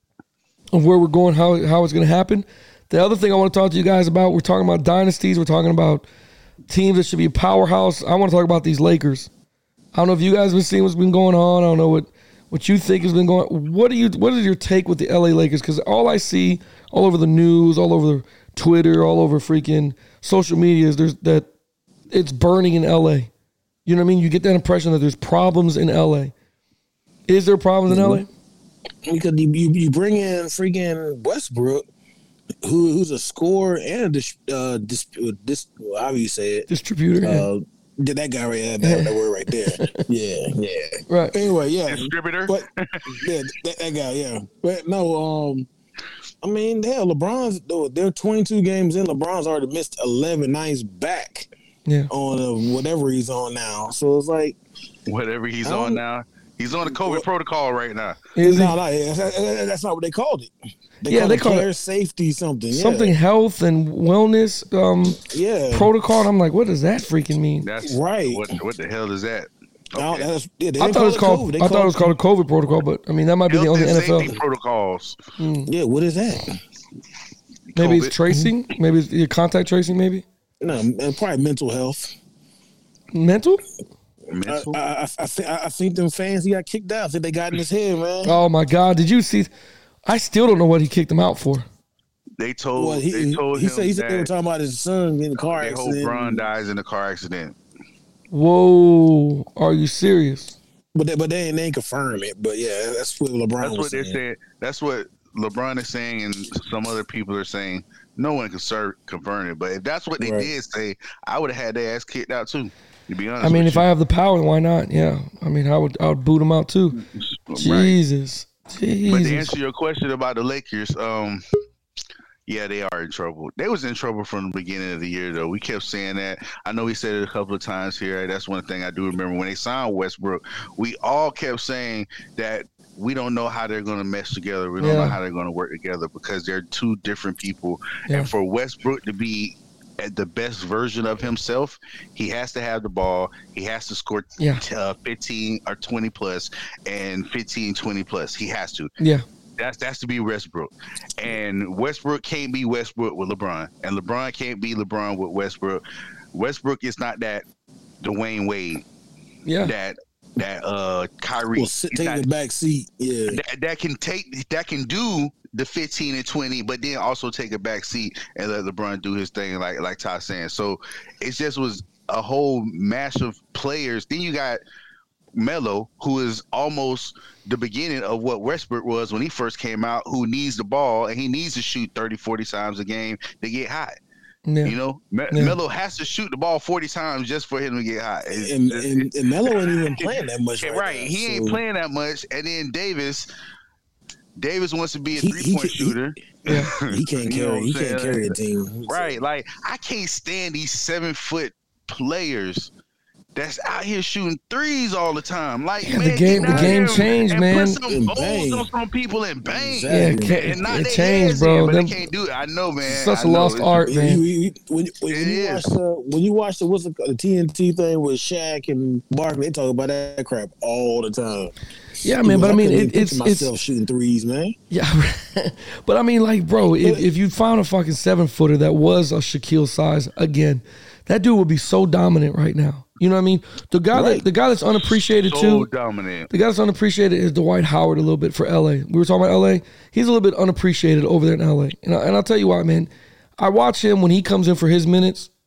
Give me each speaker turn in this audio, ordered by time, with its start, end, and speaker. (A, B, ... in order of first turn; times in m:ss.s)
0:00.7-0:06.1 A
0:06.7-0:09.3 A
0:09.9-0:21.5 A
0:22.1-0:23.3 A
0:23.8-0:26.3 A
0:27.3-0:28.3 A
0:27.9-0:28.2 B
0:29.0-0:31.8 B
0:32.6-0:36.7 B
0:36.7-0:37.5 A
0:37.2-0:45.7 B
0:38.8-0:40.0 A
0:41.1-0:41.4 A
0:41.9-0:43.0 C
0:46.4-0:51.5 B
0:52.1-0:54.6 B
0:55.1-0:58.3 C
0:55.6-0:56.0 B
0:56.8-0:57.2 B
0:58.4-0:58.8 A
0:58.4-1:00.5 B
1:01.0-1:03.2 B
1:01.1-1:01.7 A
1:02.7-1:05.2 A
1:05.2-1:05.9 B
1:05.7-1:07.7 A
1:07.6-1:10.3 C
1:07.8-1:08.5 B
1:09.9-1:12.2 B
1:10.8-1:14.3 A
1:13.5-1:15.2 C
1:15.4-1:15.7 A
1:15.7-1:16.6 B
1:17.7-1:18.2 C
1:17.7-1:20.2 A
1:20.6-1:22.2 B
1:23.1-1:23.6 A
1:24.3-1:24.8 C
1:24.5-1:28.4 B
1:28.2-1:29.5 A
1:30.0-1:31.6 A
1:32.4-1:34.3 C
1:32.8-1:36.5 B
1:35.4-1:37.6 C
1:38.3-1:40.6 A
1:40.9-1:44.2 B
1:43.6-1:53.8 C
1:50.2-1:50.5 B
1:53.4-1:57.0 A
1:57.0-1:58.0 C
1:57.6-1:59.5 A
1:59.1-2:01.4 C
2:02.5-2:28.9 C
2:14.8-2:15.2 A
2:29.0-2:29.2 A
2:29.6-2:35.8 C
2:36.3-2:37.4 C
2:38.0-2:38.8 C
2:39.4-2:39.7 A
2:39.6-2:42.3 C
2:41.5-2:43.4 B
2:43.3-2:54.6 C
2:55.3-3:03.9 C
3:04.5-3:04.8 A
3:04.6-3:09.7 C
3:05.3-3:05.6 A
3:08.3-3:11.6 B
3:10.6-3:13.3 C
3:14.4-3:18.4 C
3:15.2-3:16.0 B
3:16.5-3:19.2 B
3:18.9-3:22.7 C
3:23.3-3:33.9 C
3:25.8-3:27.8 A
3:26.4-3:27.1 B
3:27.8-3:28.7 B
3:29.4-3:30.6 B
3:29.9-3:32.0 A
3:32.8-3:34.2 A
3:33.9-3:41.5 B
3:35.1-3:35.7 C
3:42.0-3:43.5 A
3:42.0-3:44.6 B
3:44.7-3:55.7 A
3:53.9-3:54.2 B
3:55.2-3:56.3 C
3:56.3-4:05.3 A